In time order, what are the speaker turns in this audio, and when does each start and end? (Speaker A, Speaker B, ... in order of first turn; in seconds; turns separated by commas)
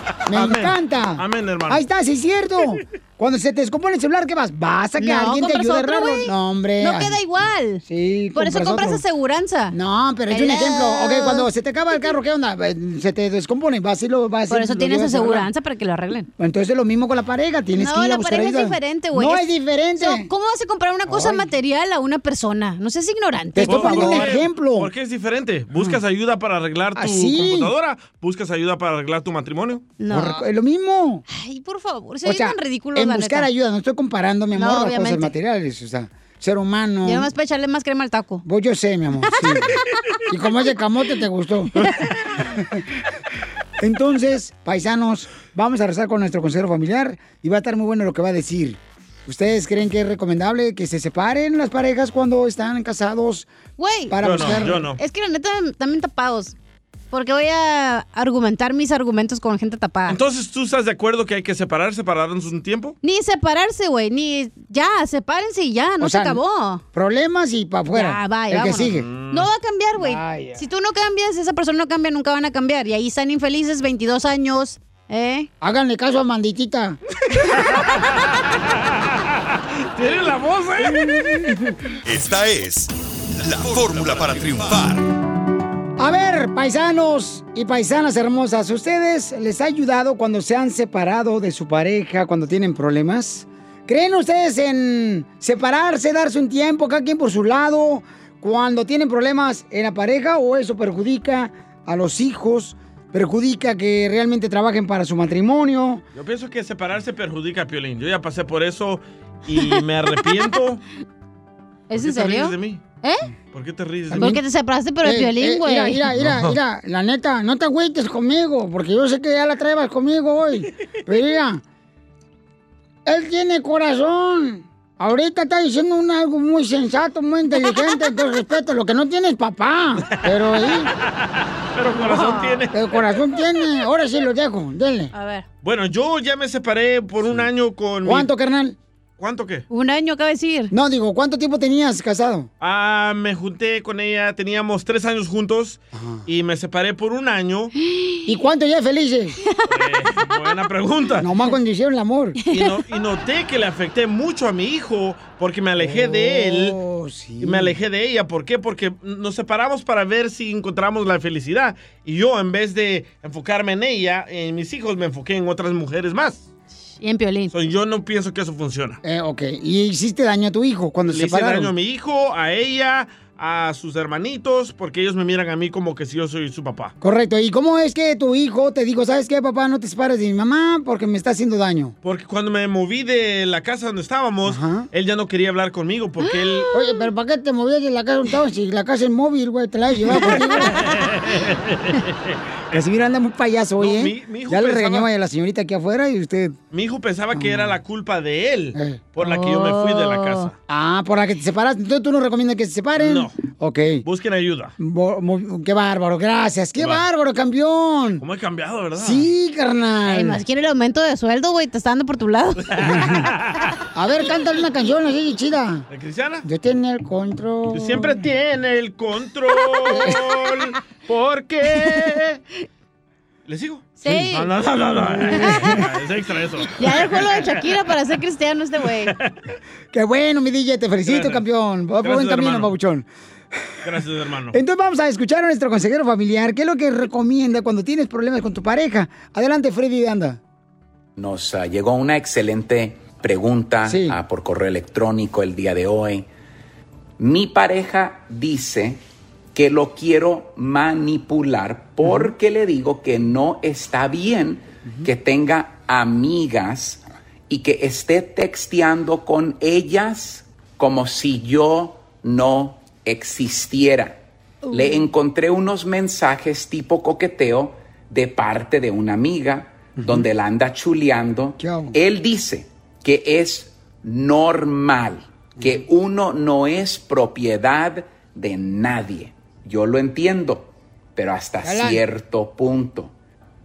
Speaker A: 0.3-7.2, Speaker B: 0.3-1.8, Speaker C: 5.0-7.8, Speaker A: 7.9-9.0, Speaker C: 8.4-9.8, Speaker A: 9.7-15.5, Speaker C: 10.3-11.5, Speaker C: 14.5-16.3, Speaker A: 16.4-20.3, Speaker C: 17.8-19.5, Speaker C: 20.0-24.3, Speaker A: 21.1-21.4, Speaker A: 23.6-24.9, Speaker B: 23.7-29.9, Speaker A: 27.0-27.7, Speaker C: 30.0-30.4, Speaker A: 30.1-31.2, Speaker C: 31.3-33.5, Speaker A: 32.2-37.3, Speaker C: 34.6-35.3, Speaker C: 37.0-38.4, Speaker A: 38.5-39.7, Speaker A: 40.3-41.7, Speaker A: 43.8-53.5, Speaker C: 53.8-56.5, Speaker A: 54.1-54.8, Speaker B: 54.2-55.0, Speaker C: 57.1-60.2, Speaker B: 60.1-63.0, Speaker C: 63.0-66.8, Speaker A: 66.0-66.4, Speaker A: 66.9-69.1, Speaker C: 67.9-75.5, Speaker B: 68.9-69.5, Speaker A: 70.0-70.6, Speaker A: 75.6-77.0, Speaker B: 77.6-78.2, Speaker B: 80.0-81.1, Speaker D: 82.0-85.0, Speaker A: 86.0-106.0, Speaker B: 106.2-110.8, Speaker C: 111.9-113.3, Speaker B: 112.0-112.8, Speaker B: 113.5-114.2, Speaker A: 114.1-114.4, Speaker C: 114.2-116.0, Speaker A: 115.0-121.6, Speaker B: 116.2-116.6, Speaker A: 123.1-130.9, Speaker B: 131.7-133.0, Speaker C: 132.0-132.6, Speaker A: 132.7-135.1, Speaker C: 135.1-135.5, Speaker B: 135.6-138.3, Speaker A: 138.1-138.8, Speaker B: 139.2-139.7, Speaker C: 139.7-140.7, Speaker A: 140.7-142.5, Speaker B: 142.6-147.7, Speaker A: 145.9-146.2, Speaker C: 147.9-148.3, Speaker A: 148.3-149.4, Speaker B: 149.7-151.3, Speaker A: 151.2-152.4, Speaker B: 152.5-156.8, Speaker A: 155.8-157.8, Speaker B: 157.4-166.4, Speaker C: 167.0-167.5, Speaker B: 167.5-169.0, Speaker A: 169.0-171.7, Speaker B: 171.1-176.9, Speaker A: 177.0-181.9, Speaker B: 182.0-186.7, Speaker A: 184.4-184.9, Speaker C: 186.2-186.8, Speaker A: 186.7-190.7, Speaker B: 191.1-192.0, Speaker A: 192.7-196.6, Speaker B: 193.8-195.1, Speaker B: 196.7-200.5, Speaker A: 197.3-197.7, Speaker A: 198.8-199.0, Speaker C: 199.2-200.5, Speaker A: 200.7-204.0, Speaker B: 203.0-203.4, Speaker B: 204.0-204.7, Speaker A: 204.8-208.2, Speaker B: 206.8-207.0, Speaker B: 208.2-209.3, Speaker A: 209.0-210.4, Speaker C: 210.1-212.7, Speaker B: 212.7-213.4, Speaker A: 213.9-215.8, Speaker B: 215.9-216.4, Speaker A: 216.4-218.1, Speaker B: 217.7-222.4, Speaker A: 219.9-220.2, Speaker B: 223.5-227.0, Speaker C: 224.0-224.5, Speaker A: 225.1-225.8, Speaker C: 225.3-225.8, Speaker C: 226.8-229.1, Speaker B: 229.1-229.3, Speaker A: 229.9-233.1, Speaker B: 231.1-231.4, Speaker B: 232.0-232.7, Speaker B: 233.8-234.6, Speaker A: 234.5-240.4, Speaker E: 241.2-246.3, Speaker A: 243.8-244.2, Speaker E: 247.2-249.0, Speaker E: 249.5-264.2, Speaker E: 264.7-283.1, Speaker A: 270.0-270.3, Speaker A: 271.6-271.9, Speaker A: 281.6-282.0